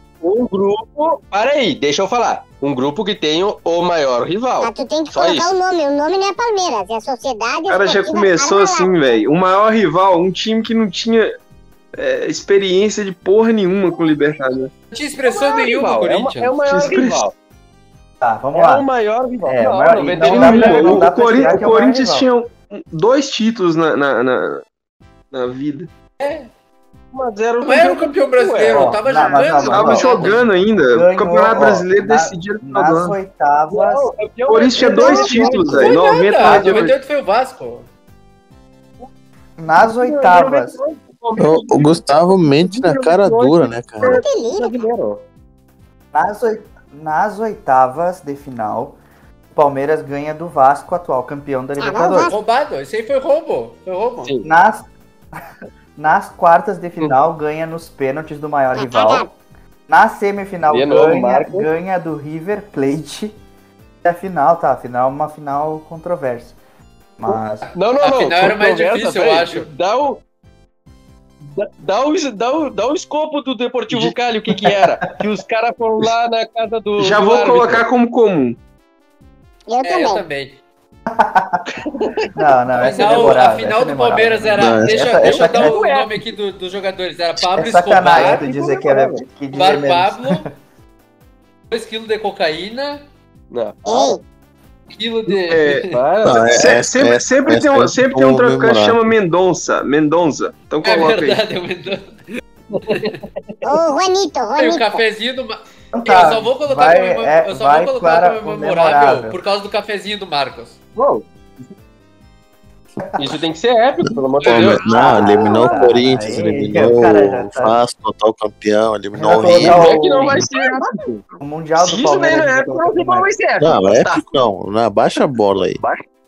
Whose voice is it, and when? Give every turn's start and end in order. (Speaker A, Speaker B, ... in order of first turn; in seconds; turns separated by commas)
Speaker A: 0.2-5.5, Speaker B: 4.6-9.2, Speaker C: 7.7-11.3, Speaker C: 11.9-14.7, Speaker D: 14.9-16.6, Speaker A: 15.2-17.3, Speaker C: 16.6-17.2, Speaker E: 18.2-18.8, Speaker A: 18.5-21.6, Speaker E: 19.4-22.3, Speaker C: 20.2-24.6, Speaker C: 25.3-25.9, Speaker D: 26.2-26.5, Speaker A: 27.1-29.0, Speaker D: 27.6-30.4, Speaker E: 28.7-30.4, Speaker A: 29.6-30.3, Speaker C: 29.7-33.1, Speaker E: 30.9-34.1, Speaker A: 33.7-35.9, Speaker C: 34.5-36.9, Speaker B: 34.9-36.1, Speaker E: 35.1-35.7, Speaker D: 35.8-37.9, Speaker E: 36.4-36.9, Speaker E: 39.6-40.8, Speaker A: 39.7-45.2, Speaker F: 41.4-44.2, Speaker B: 44.0-44.8, Speaker E: 46.1-49.0, Speaker E: 49.5-52.3, Speaker B: 51.8-52.4, Speaker D: 52.3-54.3, Speaker E: 54.4-54.9, Speaker E: 56.0-59.3, Speaker B: 58.7-59.3, Speaker E: 59.9-63.4, Speaker A: 60.7-61.7, Speaker E: 64.0-66.6, Speaker E: 67.2-67.7, Speaker A: 67.3-70.2, Speaker D: 68.0-69.7, Speaker A: 71.4-77.8, Speaker E: 74.5-74.8, Speaker C: 77.0-78.6, Speaker B: 79.7-80.2, Speaker D: 79.8-80.6, Speaker E: 81.1-81.6, Speaker A: 81.9-82.3, Speaker E: 82.3-85.8, Speaker D: 82.8-88.5, Speaker A: 82.8-83.4, Speaker F: 84.6-85.0, Speaker A: 85.2-86.3, Speaker E: 87.5-90.5, Speaker A: 88.1-89.2, Speaker D: 89.5-90.5, Speaker D: 91.7-93.0, Speaker A: 93.5-94.2, Speaker B: 93.8-94.2, Speaker D: 94.9-96.0, Speaker A: 95.3-96.7, Speaker C: 95.5-95.9, Speaker F: 96.2-99.1, Speaker C: 96.5-101.4, Speaker D: 100.8-102.2, Speaker A: 102.7-103.2, Speaker D: 102.9-103.2, Speaker B: 103.6-105.0, Speaker D: 104.6-110.8, Speaker E: 105.9-109.4, Speaker A: 111.0-111.2, Speaker E: 113.1-113.4, Speaker A: 113.2-115.7, Speaker F: 114.4-120.4, Speaker D: 114.4-114.7, Speaker E: 114.8-117.8, Speaker E: 119.1-120.4, Speaker A: 119.4-121.2, Speaker B: 120.5-121.4, Speaker E: 121.4-123.3, Speaker A: 121.8-124.2, Speaker F: 123.6-125.8